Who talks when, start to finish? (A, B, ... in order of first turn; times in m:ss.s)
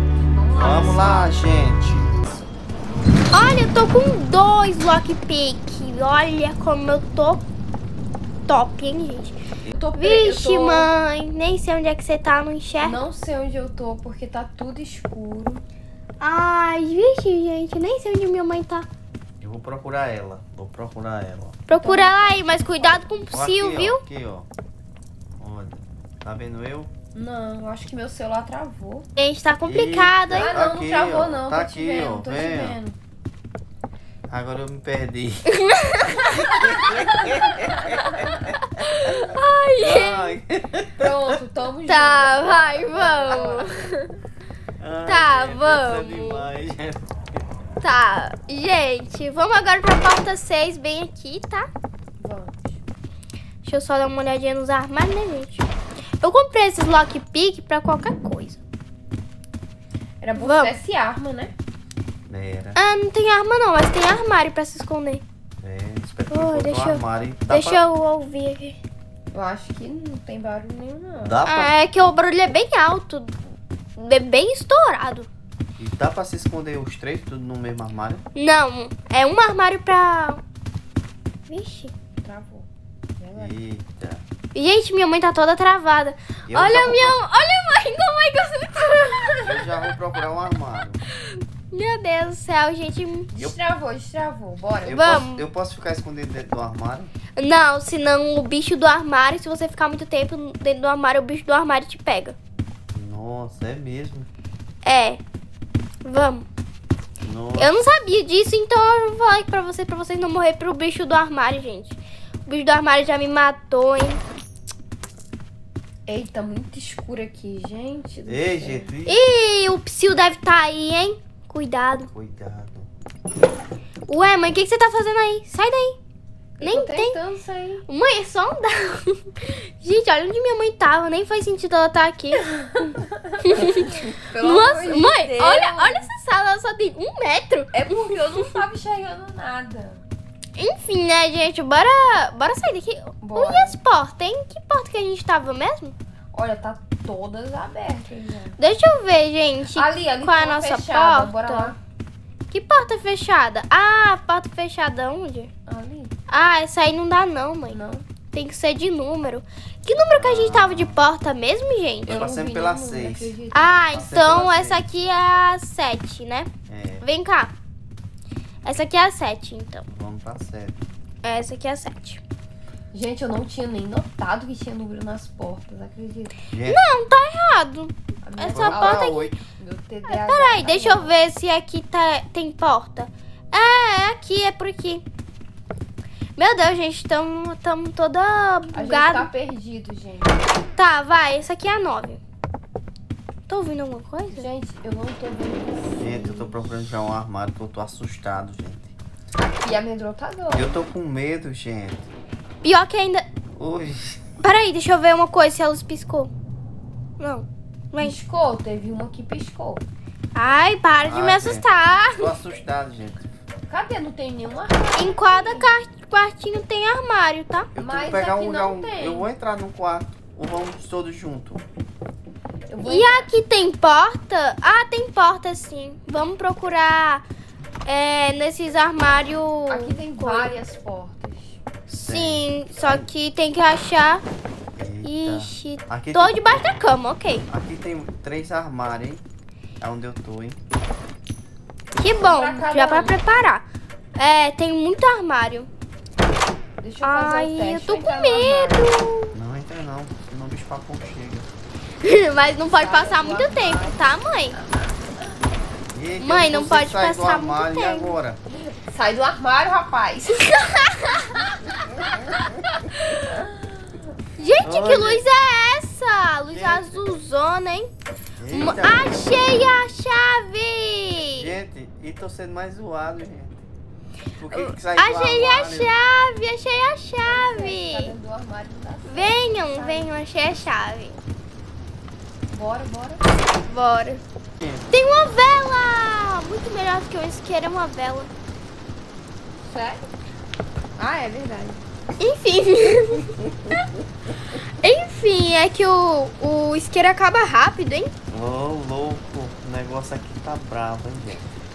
0:00.2-0:01.3 A
0:00.5-0:02.2 B
0:03.3-0:07.4 C
0:08.5-0:09.4 C
0:09.7-0:10.9 A
0:10.0-0:13.0 C
0:12.8-0:15.6 A
0:16.2-0:18.8 C
0:19.4-0:21.6 B
0:21.7-0:24.0 C
0:21.8-0:23.2 A
0:23.3-0:24.5 B
0:25.4-0:26.9 B
0:27.1-0:29.1 A
0:29.2-0:30.6 C
0:29.7-0:32.8 B
0:30.3-0:33.0 A
0:34.3-0:35.4 B
0:35.5-0:36.9 C
0:36.3-0:38.5 B
0:37.7-0:40.3 C
0:39.8-0:41.2 B
0:41.0-0:43.7 A
0:41.9-0:44.1 C
0:44.8-0:47.0 B
0:45.0-0:46.5 C
0:47.8-0:51.7 C
0:52.2-0:52.8 A
0:53.6-0:55.7 C
0:56.2-0:58.6 C
1:00.2-1:01.5 A
1:00.4-1:00.7 C
1:02.2-1:02.8 B
1:02.8-1:05.2 C
1:05.6-1:07.8 B
1:06.3-1:08.8 C
1:09.3-1:11.4 A
1:11.2-1:11.7 B
1:11.4-1:13.3 C
1:14.0-1:15.3 C
1:15.8-1:18.2 B
1:18.4-1:20.4 C
1:21.5-1:21.9 C
1:22.2-1:22.7 A
1:23.2-1:23.5 A
1:23.4-1:24.2 B
1:24.5-1:29.9 C
1:26.5-1:27.2 B
1:29.4-1:31.0 B
1:31.1-1:33.3 C
1:33.3-1:35.0 A
1:34.8-1:37.1 B
1:34.9-1:35.4 C
1:37.4-1:42.4 C
1:42.9-1:44.3 B
1:44.8-1:45.2 C
1:46.0-1:46.4 C
1:47.2-1:47.8 B
1:47.6-1:54.2 C
1:56.0-1:58.9 A
1:58.3-1:59.2 B
1:59.0-2:02.1 C
2:02.1-2:02.9 B
2:04.1-2:06.0 C
2:06.6-2:07.8 A
2:06.6-2:07.2 C
2:07.9-2:12.4 C
2:12.5-2:16.1 A
2:13.4-2:17.9 C
2:17.7-2:20.0 A
2:20.6-2:25.9 C
2:23.2-2:23.8 A
2:26.3-2:28.6 A
2:28.6-2:31.7 C
2:29.7-2:31.8 A
2:32.5-2:35.5 C
2:35.7-2:36.1 A
2:36.3-2:37.8 C
2:37.7-2:38.0 A
2:38.3-2:42.2 C
2:40.2-2:41.0 B
2:42.1-2:43.3 B
2:42.1-2:43.7 A
2:43.5-2:46.5 C
2:43.9-2:44.8 B
2:46.7-2:47.0 B
2:47.0-2:47.5 C
2:48.6-2:49.8 C
2:49.8-2:50.8 B
2:51.2-2:52.2 C
2:52.9-2:56.4 A
2:56.5-2:56.8 B
2:56.6-2:59.3 C
2:58.2-3:01.1 A
2:58.5-2:59.4 B
3:00.1-3:05.0 C
3:06.4-3:09.3 C
3:08.7-3:10.4 A
3:10.8-3:12.2 C
3:13.5-3:14.5 C
3:14.3-3:16.6 A
3:16.0-3:18.9 B
3:19.4-3:20.8 A
3:20.5-3:22.1 B
3:22.6-3:23.2 C
3:23.6-3:24.2 B
3:24.4-3:26.3 C
3:27.2-3:28.2 C
3:28.0-3:29.8 A
3:30.3-3:32.3 C
3:31.0-3:31.6 B
3:32.2-3:33.2 B
3:33.7-3:35.7 A
3:34.9-3:37.7 C
3:37.7-3:41.6 B
3:37.8-3:39.3 A
3:42.7-3:43.3 A
3:42.8-3:47.2 C
3:47.8-3:50.5 C
3:49.7-3:51.6 A
3:51.9-3:53.1 B
3:52.0-3:54.2 C
3:54.8-3:56.6 B
3:55.0-3:57.5 C
3:57.5-3:59.2 B
3:59.8-4:00.6 B
4:02.0-4:05.7 C
4:02.2-4:03.2 A
4:06.8-4:08.9 A
4:07.0-4:09.3 C
4:09.3-4:11.5 B
4:12.0-4:14.6 C
4:12.7-4:14.9 A
4:15.9-4:18.4 B
4:16.2-4:18.2 C
4:18.5-4:20.4 A
4:20.5-4:22.4 C
4:22.9-4:23.2 C
4:23.3-4:23.9 A
4:24.4-4:27.9 C
4:24.6-4:25.2 B
4:26.5-4:27.1 B
4:28.4-4:29.4 B
4:28.5-4:31.5 C
4:31.3-4:33.6 B
4:34.4-4:35.9 B
4:34.5-4:38.1 C
4:37.2-4:40.1 A
4:39.1-4:41.2 C
4:42.5-4:43.2 A
4:43.6-4:44.2 C
4:44.9-4:48.3 C
4:49.6-4:50.1 A
4:51.0-4:51.8 A
4:52.2-4:53.3 C
4:54.8-4:58.1 C
4:58.3-5:01.4 B